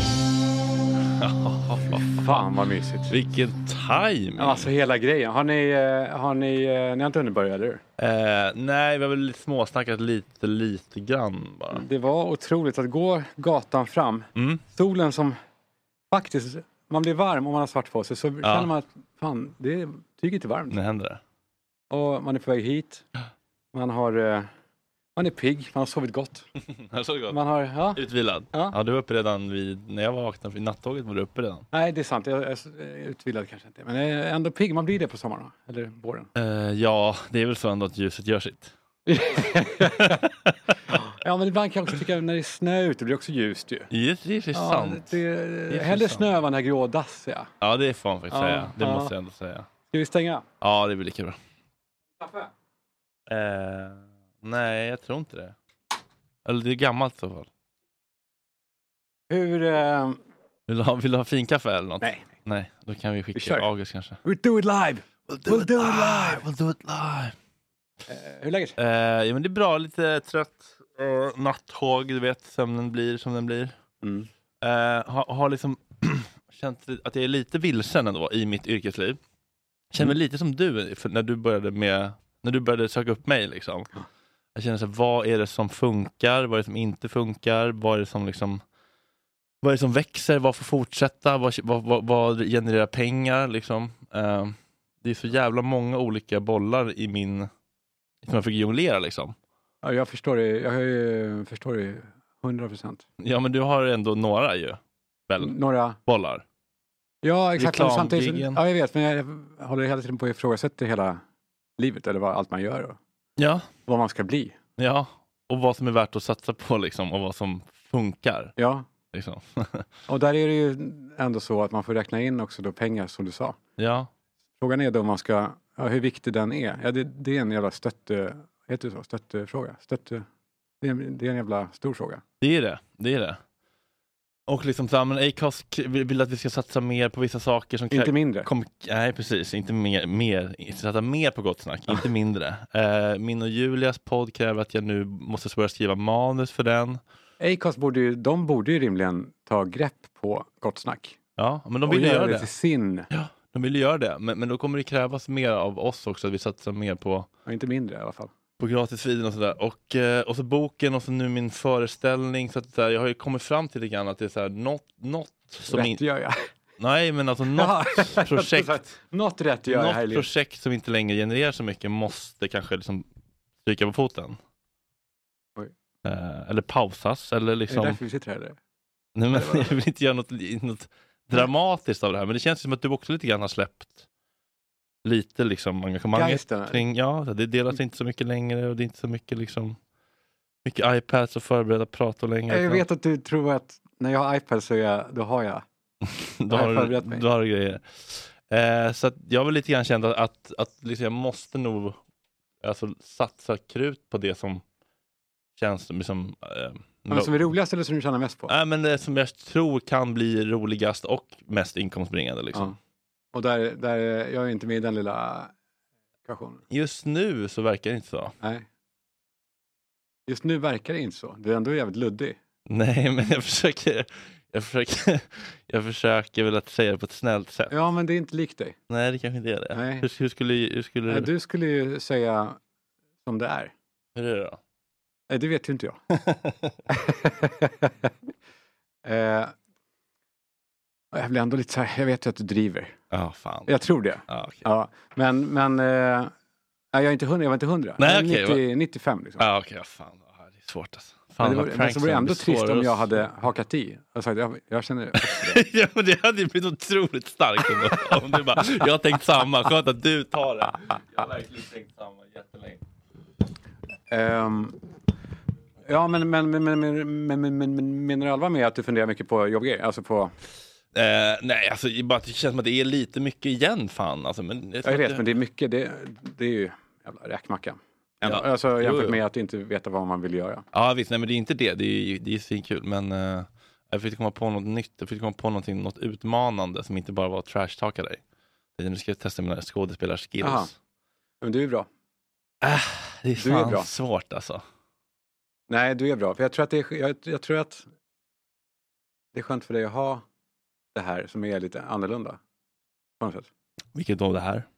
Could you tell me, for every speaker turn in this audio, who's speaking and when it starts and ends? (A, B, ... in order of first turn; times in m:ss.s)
0:01.2-0:02.4 A
0:01.9-0:03.2 B
0:03.1-0:04.7 A
0:04.4-0:07.8 B
0:08.0-0:11.8 A
0:11.7-0:15.3 B
0:14.4-0:14.6 A
0:16.1-0:20.8 B
0:18.4-0:18.7 A
0:20.7-0:21.2 A
0:21.9-0:23.0 B
0:23.7-0:24.5 B
0:25.2-0:26.5 B
0:26.9-0:31.6 A
0:27.3-0:28.8 B
0:31.7-0:36.3 B
0:36.4-0:38.7 A
0:39.0-0:40.2 B
0:40.9-0:43.9 B
0:43.9-0:45.2 A
0:44.5-0:47.5 B
0:45.7-0:46.3 A
0:47.6-0:49.7 A
0:48.3-0:49.1 B
0:49.9-0:50.4 B
0:50.6-0:51.4 A
0:52.2-0:52.5 B
0:53.3-0:55.5 A
0:56.4-0:57.5 A
0:59.3-1:00.2 B
1:00.7-1:04.2 A
1:03.3-1:03.7 B
1:04.2-1:06.4 B
1:05.3-1:07.3 A
1:08.1-1:08.8 B
1:08.8-1:13.7 A
1:14.0-1:14.3 B
1:14.6-1:19.2 A
1:19.9-1:23.9 A
1:24.5-1:28.6 A
1:29.6-1:37.5 A
1:38.2-1:39.3 A
1:39.8-1:43.0 B
1:43.2-1:45.5 A
1:45.4-1:46.0 B
1:46.0-1:46.4 A
1:47.2-1:51.2 B
1:47.6-1:48.6 A
1:51.8-1:53.0 B
1:53.4-1:53.7 A
1:53.9-1:54.6 B
1:54.8-1:58.5 A
1:58.6-1:58.8 B
1:59.1-1:59.8 A
2:00.1-2:03.6 B
2:03.8-2:04.1 A
2:04.6-2:10.2 B
2:10.8-2:12.2 B
2:12.4-2:13.4 A
2:14.5-2:27.0 A
2:17.9-2:18.5 B
2:27.4-2:31.2 B
2:31.4-2:32.5 A
2:31.8-2:33.1 B
2:33.1-2:37.3 A
2:37.4-2:38.3 B
2:38.6-2:46.0 A
2:45.7-2:46.3 B
2:46.8-2:48.8 A
2:47.5-2:50.3 B
2:49.7-2:53.0 A
2:53.6-2:54.4 A
2:56.0-2:58.0 A
2:57.7-2:58.6 B
2:59.2-3:03.9 A
2:59.3-2:59.8 B
3:05.0-3:09.8 A
3:06.1-3:06.8 B
3:10.6-3:12.8 A
3:12.5-3:15.6 B
3:16.1-3:22.0 A
3:16.4-3:17.3 B
3:22.6-3:24.6 A
3:25.6-3:27.5 A
3:27.1-3:28.5 B
3:28.5-3:32.8 A
3:33.3-3:35.5 B
3:36.2-3:36.6 B
3:36.7-3:38.3 A
3:40.3-3:42.4 B
3:42.7-3:47.7 A
3:47.7-3:48.8 B
3:48.9-3:51.3 A
3:49.7-3:50.1 B
3:51.1-3:52.6 B
3:53.2-3:53.7 B
3:54.1-3:54.6 A
3:55.3-3:56.0 B
3:56.9-3:57.9 B
3:59.0-3:59.5 B
4:01.1-4:02.9 B
4:03.1-4:04.6 A
4:03.7-4:06.3 B
4:06.9-4:09.5 B
4:08.0-4:08.6 A
4:09.4-4:13.2 A
4:11.4-4:15.6 B
4:15.2-4:22.8 A
4:24.1-4:24.8 B
4:25.8-4:30.3 B
4:30.9-4:35.2 A
4:34.8-4:40.6 B
4:38.2-4:39.2 A
4:40.7-4:48.2 A
4:48.8-4:50.7 A
4:50.4-4:50.7 B
4:51.4-4:51.9 B
4:52.6-4:54.6 A
4:53.4-4:53.9 B
4:55.7-4:57.8 B
4:59.3-5:00.2 B
5:00.9-5:02.4 B
5:03.2-5:03.5 B
5:03.9-5:04.6 A